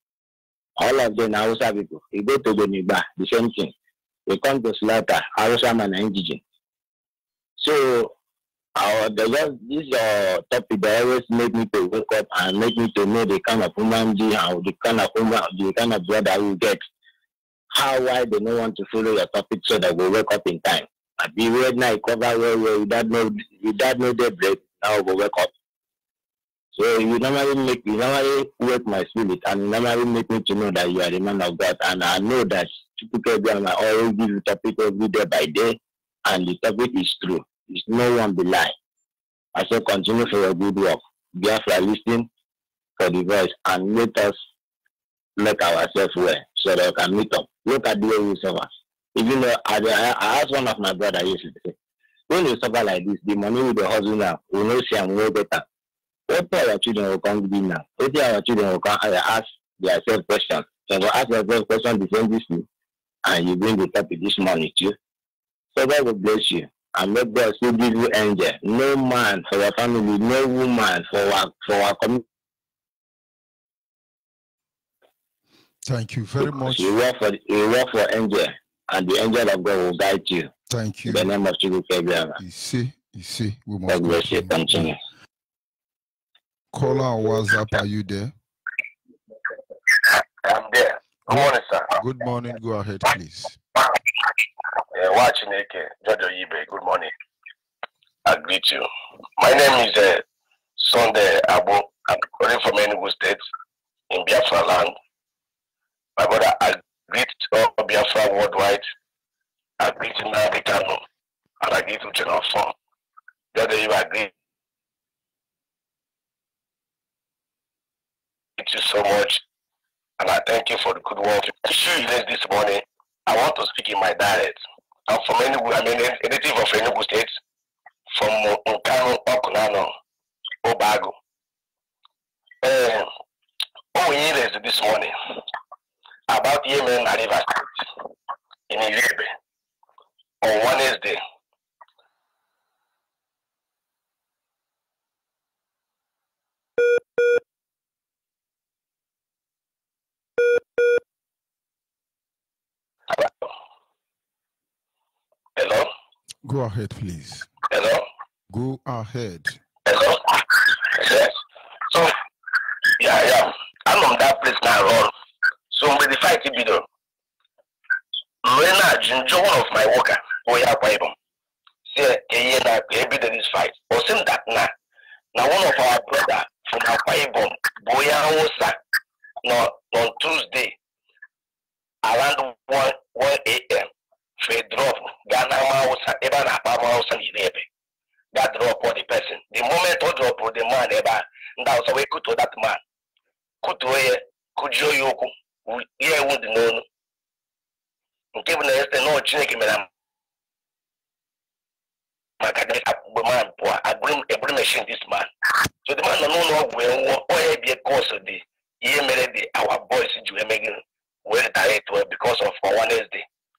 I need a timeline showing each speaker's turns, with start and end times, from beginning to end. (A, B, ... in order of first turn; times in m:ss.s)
0:00.8-0:03.7 A
0:04.3-0:06.4 A
0:07.6-0:08.1 A
0:08.8-0:16.8 A
0:17.7-0:25.5 A
0:26.8-0:38.7 A
0:39.5-0:42.3 A
0:43.0-0:44.4 A
0:45.4-0:51.8 A
0:52.3-0:55.7 A
0:56.3-1:02.7 A
1:03.2-1:05.0 A
1:05.7-1:12.2 A
1:15.9-1:16.9 B
1:16.4-1:20.5 A
1:20.7-1:21.3 B
1:21.1-1:22.4 A
1:22.4-1:25.0 B
1:23.9-1:25.0 A
1:26.7-1:28.3 B
1:29.9-1:31.9 C
1:31.3-1:33.5 B
1:34.9-1:37.1 C
1:38.3-1:38.9 C
1:39.4-1:40.2 C
1:40.8-1:43.4 C
1:44.1-1:44.9 C
1:46.2-1:48.8 C
1:49.8-1:51.0 C
1:51.6-1:52.7 C
1:53.5-1:54.3 C
1:58.6-1:59.4 C
2:00.2-2:07.4 C
2:08.1-2:09.9 C
2:10.6-2:11.1 C
2:12.6-2:13.1 C
2:14.0-2:15.1 C
2:16.3-2:17.9 C
2:18.7-2:19.3 C
2:20.4-2:21.2 C
2:33.1-2:33.4 C
2:35.6-2:35.9 C
2:36.4-2:37.5 B
2:37.7-2:38.1 C
2:38.5-2:39.6 B
2:39.9-2:41.4 C
2:43.0-2:45.1 C
2:45.7-2:46.8 C
2:48.4-2:51.1 C
2:51.9-2:54.7 C
2:55.3-2:58.8 C
2:59.4-3:00.8 C
3:02.0-3:03.9 C
3:04.4-3:07.6 C
3:08.3-3:12.8 C
3:13.6-3:16.8 C
3:18.4-3:19.9 C
3:22.4-3:25.3 C
3:25.8-3:33.2 C